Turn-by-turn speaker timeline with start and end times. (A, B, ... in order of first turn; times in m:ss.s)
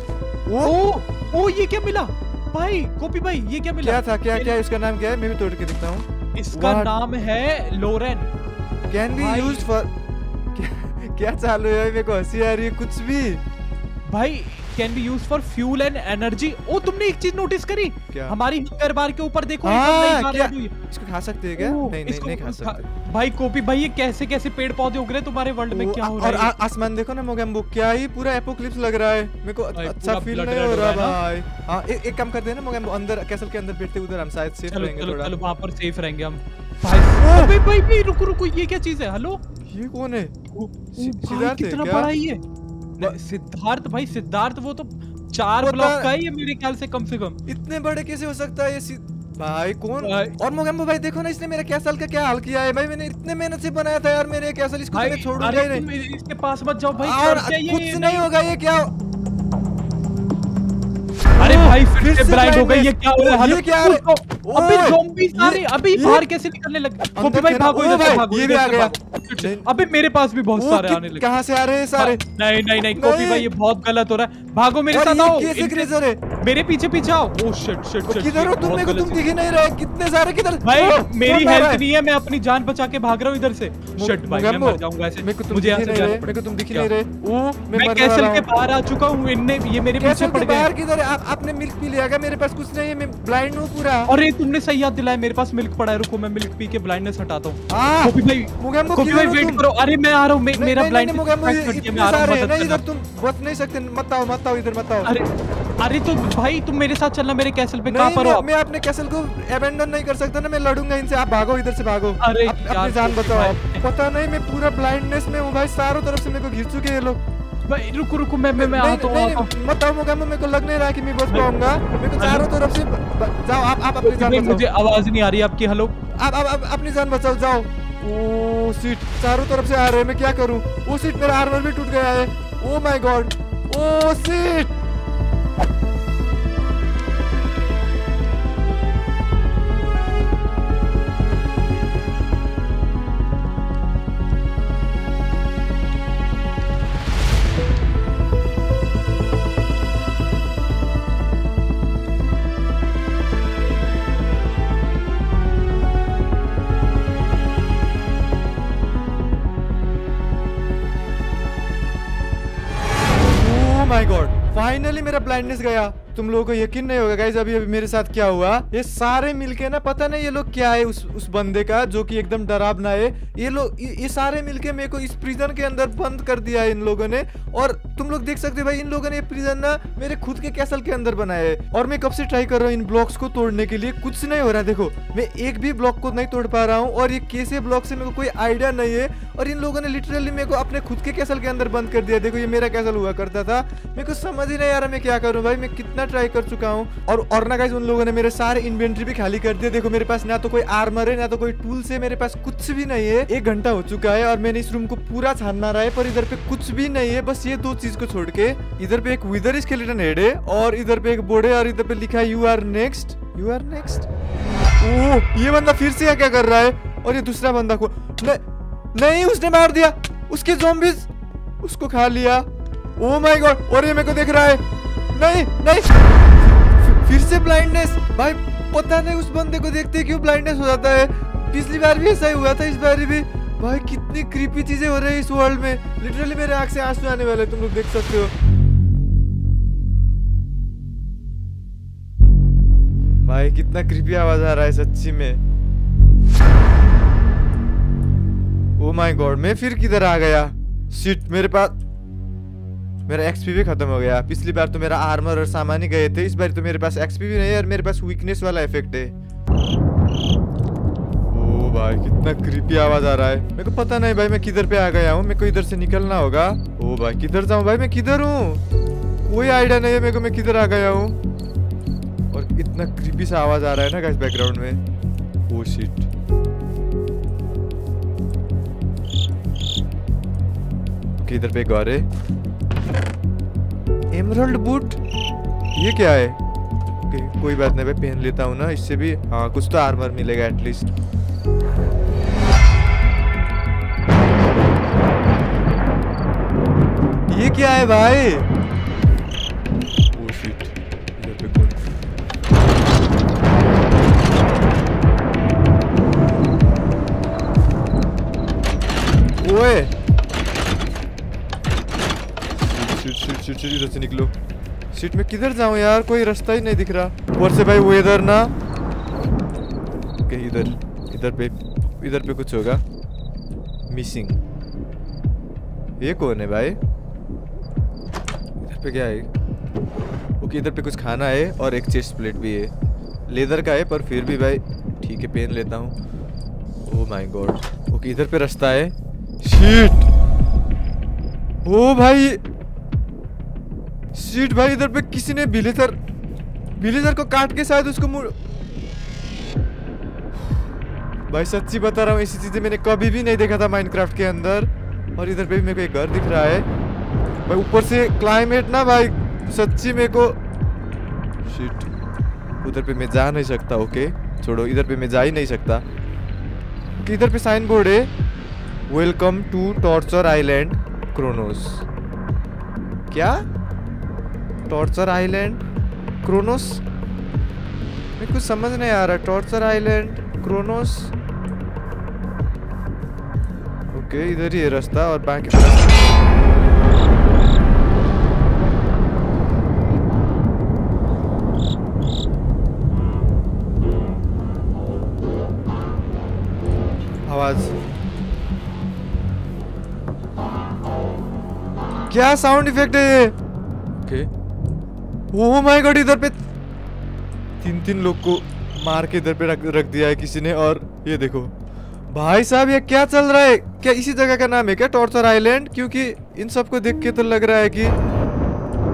0:00.5-0:00.8 A
0:00.6-0:04.6 B
0:03.8-0:07.0 A
0:06.4-0:08.3 B
0:08.9-0:09.9 A
0:09.1-0:09.7 B
0:10.5-0:13.4 A
0:14.1-0:20.7 B
0:18.1-0:18.4 A
0:19.6-0:22.9 A
0:21.6-0:26.5 B
0:25.7-0:35.4 A
0:29.7-0:31.2 B
0:34.7-0:39.4 B
0:37.2-0:37.6 A
0:39.7-0:40.4 A
0:40.5-0:42.4 B
0:40.9-0:42.1 A
0:43.0-0:47.4 B
0:45.6-0:46.1 A
0:47.5-0:55.9 A
0:50.0-0:50.4 B
0:54.9-0:58.3 B
0:57.0-0:58.9 A
1:01.4-1:06.3 A
1:01.4-1:11.3 B
1:07.2-1:09.7 A
1:10.6-1:12.2 A
1:12.0-1:19.3 B
1:13.0-1:13.5 A
1:14.9-1:16.2 A
1:18.1-1:21.8 A
1:20.6-1:26.9 B
1:24.0-1:28.5 A
1:27.7-1:30.7 B
1:30.0-1:34.1 A
1:34.1-1:42.8 B
1:37.7-1:39.6 A
1:40.5-1:45.1 A
1:45.0-1:48.5 B
1:47.8-1:57.2 A
1:52.2-1:53.8 B
1:57.7-1:59.5 B
1:58.6-2:04.6 A
2:02.2-2:02.5 B
2:04.0-2:06.0 B
2:06.2-2:14.7 A
2:43.3-3:34.1 A
3:34.8-3:38.4 A
3:38.9-3:41.1 A
3:41.6-3:42.5 A
3:43.0-3:44.6 A
3:45.1-3:46.0 A
3:46.7-3:58.3 A
4:03.2-4:05.4 A
4:08.8-4:11.8 A
4:13.1-4:19.1 A
4:21.3-4:28.6 A
4:29.3-4:31.2 A
4:32.3-4:34.8 A
4:35.5-4:36.1 A
4:41.2-4:42.1 A
4:44.1-4:45.0 A
4:45.8-4:46.4 A
4:47.1-4:50.9 A
4:57.3-4:58.5 A
5:00.1-5:01.8 A
5:09.4-5:09.9 A
5:12.6-5:14.3 A
5:14.9-5:18.5 A
5:20.2-5:22.8 A
5:23.9-5:24.4 A
5:26.0-5:26.8 A
5:28.6-5:29.3 A
5:30.4-5:32.7 A
5:33.3-5:36.0 A
5:36.9-5:40.1 A
5:41.6-5:42.4 A
5:44.1-5:46.0 A
5:46.8-5:48.3 A
5:51.3-5:56.7 A
5:57.5-6:00.4 A
6:01.5-6:01.9 A
6:02.6-6:05.8 A
6:07.0-6:08.1 A
6:08.9-6:11.8 A
6:13.1-6:13.4 A
6:14.7-6:15.6 A
6:16.2-6:16.8 A
6:18.2-6:21.1 A
6:23.9-6:26.1 A
6:37.2-6:37.7 A
6:42.1-6:43.4 A
6:44.0-6:44.3 A
6:45.3-6:46.4 A
6:47.6-6:51.5 A
6:52.1-6:58.0 A